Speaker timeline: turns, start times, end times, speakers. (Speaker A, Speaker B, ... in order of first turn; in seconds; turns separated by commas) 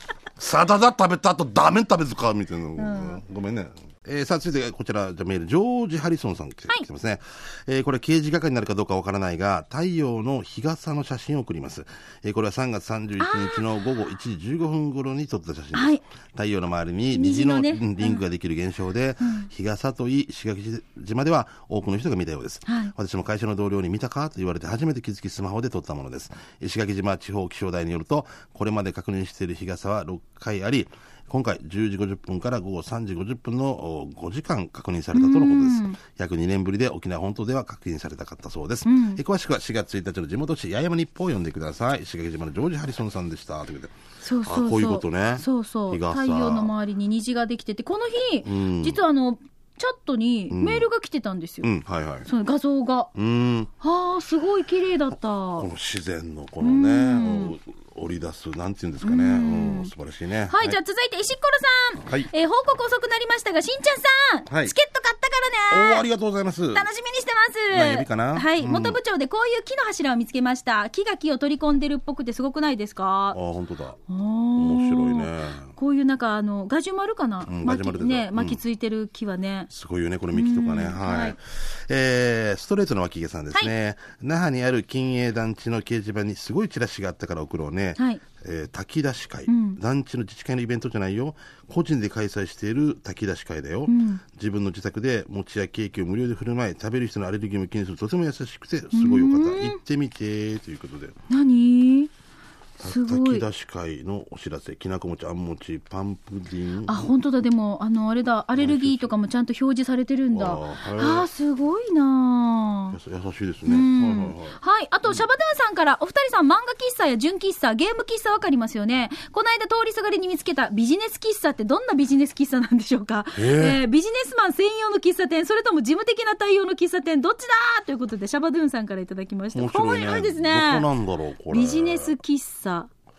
Speaker A: 0.4-46.7, Speaker B: 2.8-3.2, Speaker B: 13.2-13.6, Speaker B: 15.7-16.0, Speaker B: 17.1-18.2, Speaker B: 19.2-19.5, Speaker B: 22.7-22.9, Speaker B: 35.1-36.0, Speaker B: 38.9-39.2, Speaker B: 44.2-51.7, Speaker A: 48.4-49.0, Speaker A: 50.5-50.9, Speaker A: 51.6-52.3, Speaker B: 52.2-53.1, Speaker A: 53.1-53.7, Speaker B: 53.8-55.7, Speaker A: 55.6-60.8, Speaker B: 56.6-57.5, Speaker B: 59.0-59.9, Speaker B: 60.5-66.0, Speaker A: 64.5-64.7, Speaker A: 65.7-66.9, Speaker B: 66.7-73.4, Speaker A: 67.7-69.0, Speaker A: 73.3-74.0, Speaker B: 74.1-79.7, Speaker A: 74.5-75.7, Speaker A: 77.5-78.6, Speaker A: 79.7-101.2, Speaker B: 80.3-81.3, Speaker B: 88.0-88.2, Speaker B: 89.5-89.8, Speaker B: 93.9-94.2, Speaker B: 98.9-99.8, Speaker B: 101.3-102.1, Speaker A: 102.8-107.1, Speaker B: 102.8-103.4, Speaker B: 106.8-113.0, Speaker A: 108.6-109.1, Speaker A: 110.3-111.3, Speaker A: 112.9-114.6, Speaker B: 113.7-130.9, Speaker A: 123.3-123.8, Speaker A: 129.5-132.1, Speaker B: 131.5-132.9